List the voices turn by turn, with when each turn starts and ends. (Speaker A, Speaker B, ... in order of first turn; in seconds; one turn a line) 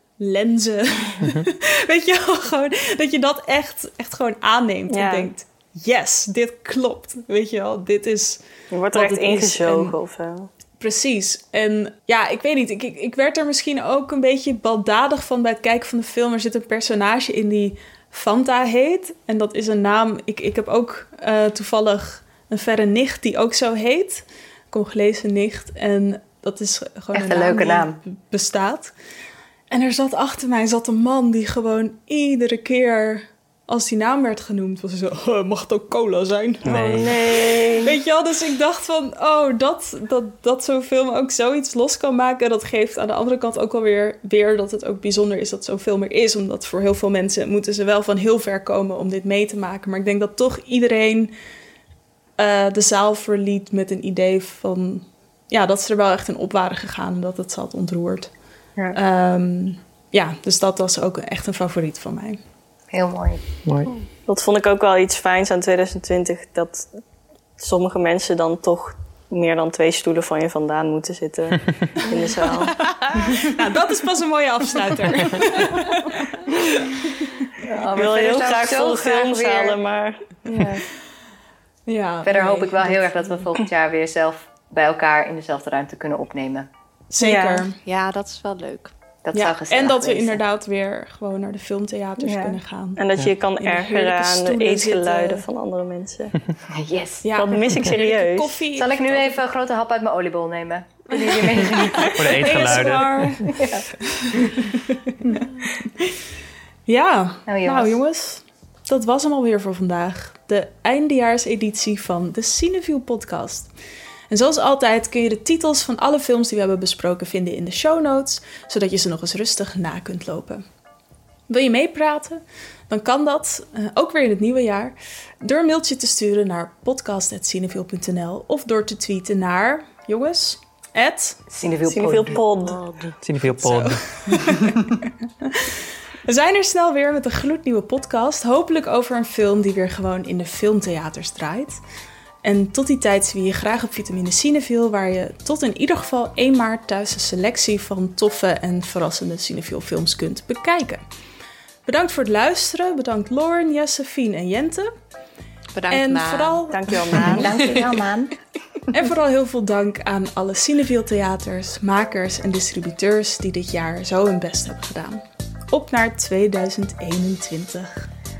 Speaker A: 0.2-9.9
Speaker B: 4.9-5.3
Speaker B: 8.7-10.5
Speaker A: 10.8-28.9
Speaker C: 27.1-28.0
Speaker A: 29.7-36.7
Speaker B: 36.6-38.0
Speaker D: 36.6-37.1
Speaker A: 37.8-51.3
Speaker A: 52.4-58.3
Speaker A: 58.9-62.4
Speaker C: 62.9-63.4
Speaker D: 63.6-63.9
Speaker B: 64.3-66.9
Speaker B: 67.6-72.8
Speaker A: 73.4-76.3
Speaker C: 77.7-79.8
Speaker B: 77.9-80.2
Speaker A: 80.5-80.8
Speaker A: 81.9-83.5
Speaker C: 82.2-86.7
Speaker A: 87.1-87.8
Speaker B: 87.2-87.7
Speaker E: 87.8-88.9
Speaker C: 89.2-90.4
Speaker A: 89.3-95.5
Speaker B: 92.2-96.3
Speaker C: 96.7-97.3
Speaker A: 97.2-99.3
Speaker B: 97.3-98.6
Speaker C: 98.8-102.9
Speaker A: 101.9-103.6
Speaker D: 102.2-103.5
Speaker C: 103.5-103.9
Speaker A: 104.1-105.5
Speaker A: 106.9-113.7
Speaker C: 107.5-108.0
Speaker A: 114.3-120.6
Speaker A: 121.5-131.4
Speaker C: 131.5-132.4
Speaker B: 131.9-132.8
Speaker E: 132.7-133.2
Speaker D: 133.2-134.0
Speaker A: 133.6-134.8
Speaker A: 135.4-141.8
Speaker A: 142.4-151.0
Speaker A: 151.9-154.9
Speaker E: 155.7-156.7
Speaker A: 155.9-157.4
Speaker B: 156.7-157.5
Speaker C: 157.2-158.3
Speaker E: 157.4-157.8
Speaker A: 158.9-168.1